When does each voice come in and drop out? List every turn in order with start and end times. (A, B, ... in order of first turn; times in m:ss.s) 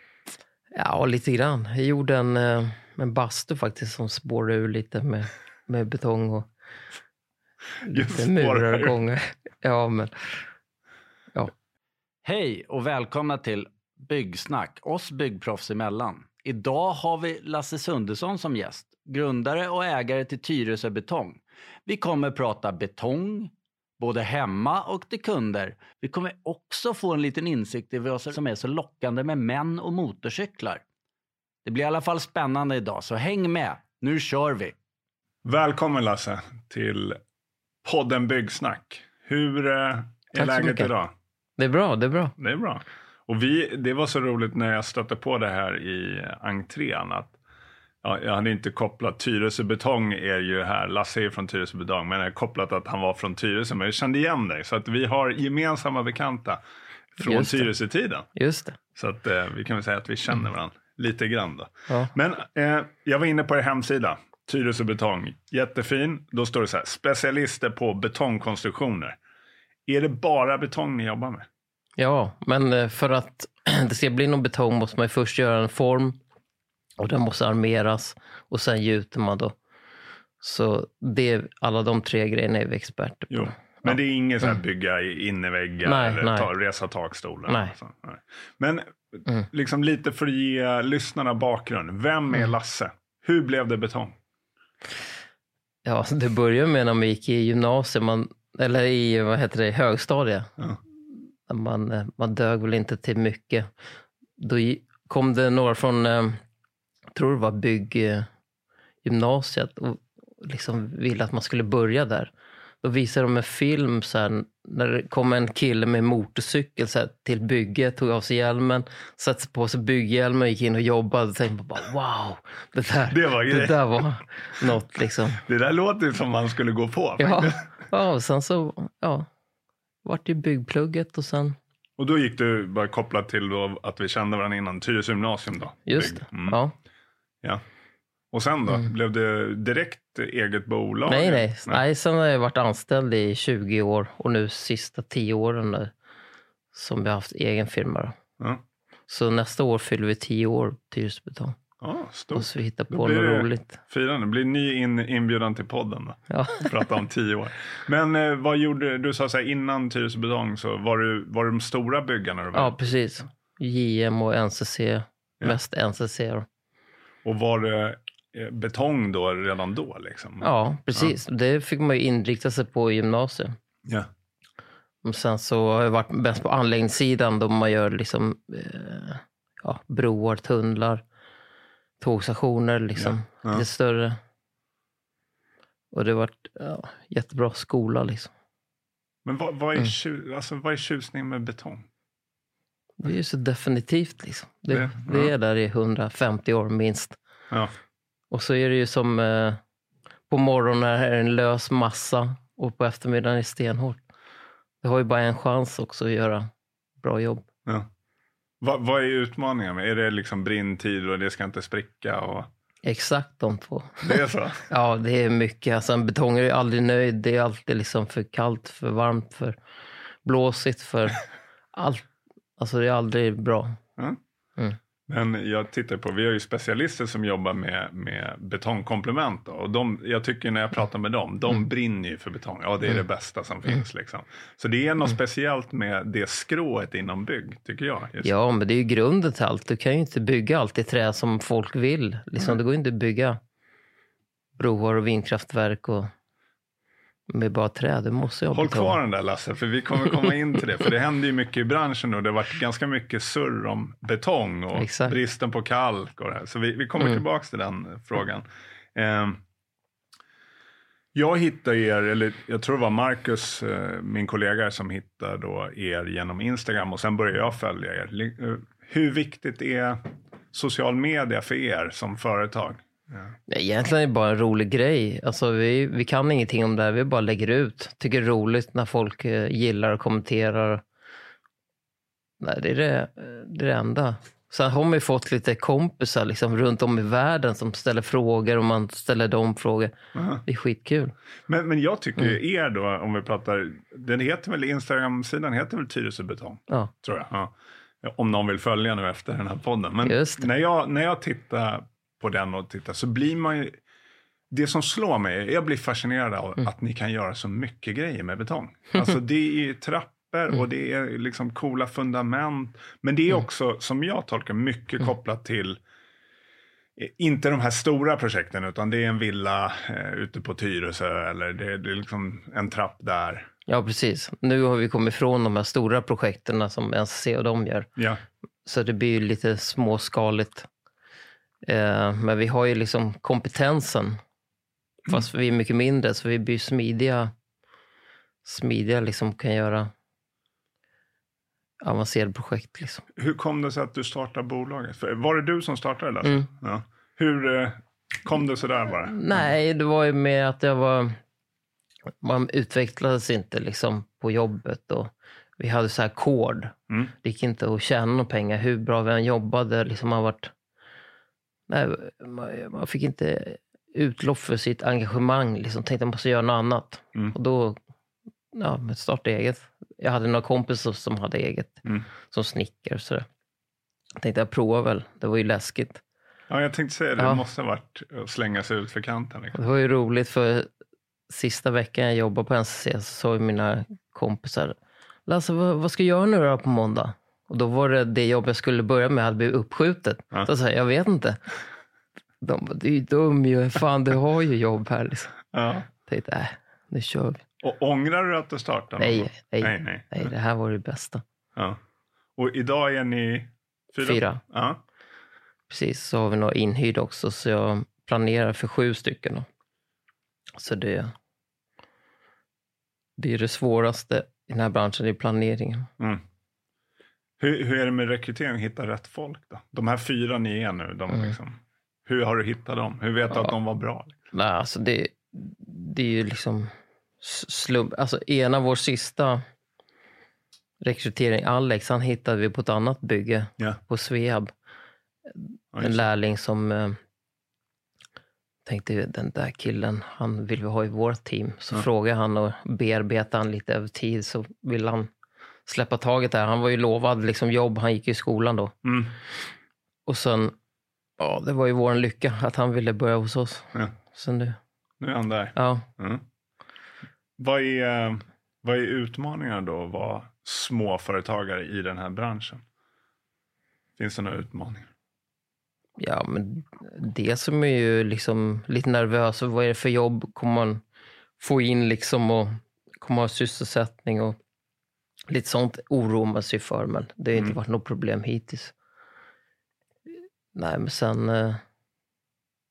0:00.7-0:06.5 A
0:07.8-0:10.4 A
0:07.8-0:09.0 B
0:12.2-0:30.8 C
0:31.6-0:34.7 C
0:35.4-0:37.2 B
0:37.8-0:41.1 B
0:40.4-0:40.9 A
0:41.6-0:42.4 A
0:42.4-0:47.4 B
0:48.0-0:56.6 B
0:57.2-0:58.3 B
0:57.2-0:57.7 A
0:58.3-0:58.8 A
0:59.0-1:09.2 B
1:09.9-1:11.5 B
1:12.0-1:16.2 A
1:17.0-1:19.6 A
1:20.4-1:24.0 A
1:23.3-1:34.2 B
1:25.8-1:26.5 A
1:27.5-1:27.7 A
1:35.8-1:40.5 A
1:41.5-1:43.7 A
1:44.4-1:46.4 A
1:47.2-1:48.3 A
1:49.0-1:52.3 A
1:52.8-2:05.4 A
2:03.1-2:04.0 B
2:05.4-2:07.7 B
2:07.2-2:09.3 A
2:10.0-2:11.6 A
2:12.0-2:16.6 B
2:15.8-2:16.7 A
2:18.3-2:21.8 B
2:21.1-2:25.9 A
2:26.7-2:28.1 A
2:29.1-2:31.6 A
2:31.8-2:42.9 B
2:32.3-2:33.8 A
2:36.3-2:36.7 A
2:42.5-2:46.4 A
2:47.2-2:51.1 B
2:50.4-2:53.6 A
2:55.0-3:01.0 A
3:02.0-3:04.2 A
3:03.0-3:03.6 B
3:05.9-3:08.3 A
3:09.2-3:11.8 B
3:13.0-3:17.2 A
3:14.7-3:15.3 B
3:18.3-3:19.6 A
3:20.3-3:24.0 A
3:24.8-3:27.4 A
3:28.6-3:32.5 B
3:32.8-3:39.6 A
3:34.0-3:34.7 B
3:40.2-3:41.2 A
3:41.7-3:42.0 A
3:42.6-3:43.8 A
3:45.1-3:58.3 B
3:58.2-4:03.4 A
4:04.6-4:06.1 A
4:07.3-4:09.0 A
4:08.5-4:19.4 B
4:14.8-4:15.2 A
4:21.2-4:30.0 B
4:30.5-4:33.4 B
4:33.5-4:40.8 A
4:42.4-4:49.9 A
4:50.1-4:50.4 B
4:50.4-4:51.2 A
4:51.5-5:03.8 B
5:00.0-5:00.5 A
5:04.5-5:15.8 B
5:17.0-5:23.5 B
5:23.7-5:27.9 A
5:28.7-5:30.7 A
5:31.6-5:34.2 A
5:35.0-5:37.3 A
5:38.4-5:39.9 A
5:41.8-5:43.1 A
5:43.2-5:49.5 B
5:49.1-5:51.2 A
5:52.2-6:00.5 A
6:01.7-6:07.8 A
6:08.5-6:13.2 A
6:14.2-6:16.0 A
6:16.5-6:19.6 B
6:19.6-6:20.7 A
6:21.3-6:31.4 A
6:32.4-6:35.5 A
6:35.5-6:35.9 B
6:36.0-6:37.4 A
6:37.6-6:40.3 B
6:39.0-6:41.2 A
6:42.4-6:44.8 B
6:44.0-6:44.4 A
6:45.7-6:49.5 A
6:50.6-6:51.1 A
6:53.2-6:55.9 A
6:57.4-7:04.2 B
7:04.3-7:06.7 A
7:07.2-7:09.4 A
7:10.8-7:14.5 A
7:15.3-7:17.0 A
7:15.7-7:16.1 B
7:18.6-7:25.1 A
7:25.7-7:28.8 A
7:28.8-7:29.2 B
7:30.1-7:30.6 A
7:31.2-7:34.6 A
7:35.0-7:36.2 B
7:35.6-7:35.9 A
7:37.4-7:42.6 B
7:44.0-7:44.9 B
7:46.0-7:50.8 A
7:51.4-7:54.4 A
7:55.3-7:58.7 A
8:00.6-8:01.6 A